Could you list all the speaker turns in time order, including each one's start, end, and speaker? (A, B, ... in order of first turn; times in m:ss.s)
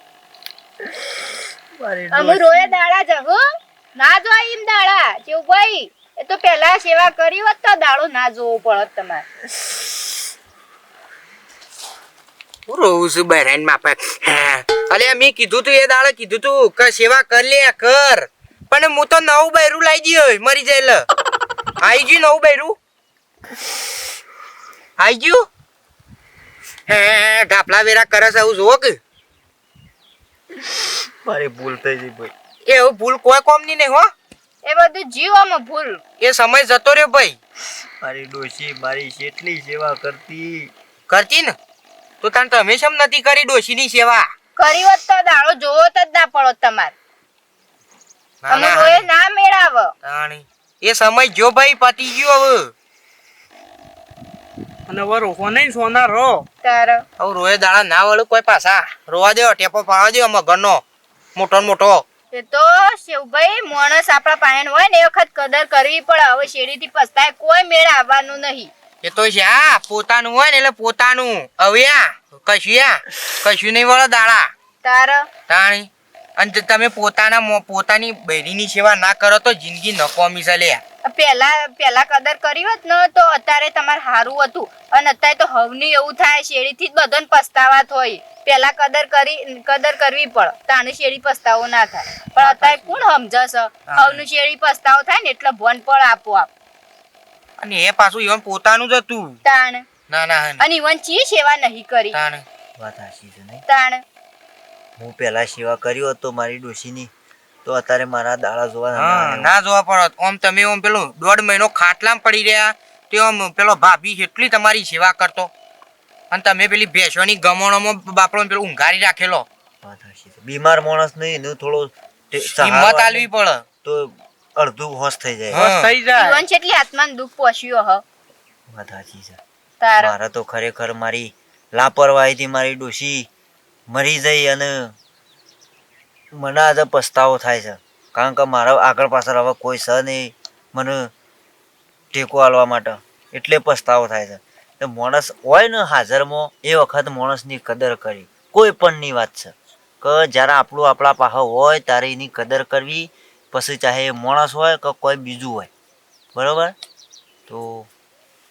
0:01.8-0:02.7 A
0:02.1-0:03.4 B
0:04.0-0:09.2 B
0:12.7-0:21.1 C
0:21.8-0:22.8 C
0:25.0-0:25.5 C
0:26.9-0:29.0 C
0:31.2-0:32.3 A
0:32.6-0:34.1 C
0:34.6-0:36.0 B
0:36.2-0:37.4 C
0:38.0-0:40.7 A
0:41.1-0:41.5 C
0:42.2-0:44.3 C
0:44.6-0:46.9 B
0:48.4-0:49.0 C
0:48.5-0:49.9 B
0:50.0-0:52.7 C
0:54.9-0:56.4 D
0:56.6-0:57.0 B
0:57.2-1:00.8 C
1:01.4-1:02.0 C
1:02.3-1:08.7 B
1:09.0-1:14.5 C
1:14.8-1:15.3 B
1:15.5-1:20.8 C
1:21.0-1:36.5 B
1:32.4-1:32.8 C
1:33.9-1:34.2 C
1:37.6-1:39.4 C
1:39.4-1:39.9 B
1:40.1-1:40.6 C
1:40.6-1:42.2 B
1:42.1-1:42.4 C
1:42.8-1:43.6 A
1:43.7-1:44.0 B
1:45.0-1:47.1 A
1:47.6-1:49.5 A
1:49.0-1:55.5 C
1:56.3-1:59.4 C
1:59.8-2:03.3 A
2:02.5-2:03.6 C
2:03.8-2:05.7 A
2:05.5-2:05.9 C
2:05.5-2:06.4 D
2:06.1-2:08.0 B
2:08.7-2:09.4 A
2:09.8-2:10.1 B
2:10.0-2:13.3 A
2:13.9-2:14.9 A
2:16.3-2:21.1 A
2:22.1-2:35.7 A
2:36.3-2:36.7 A
2:37.5-2:37.9 A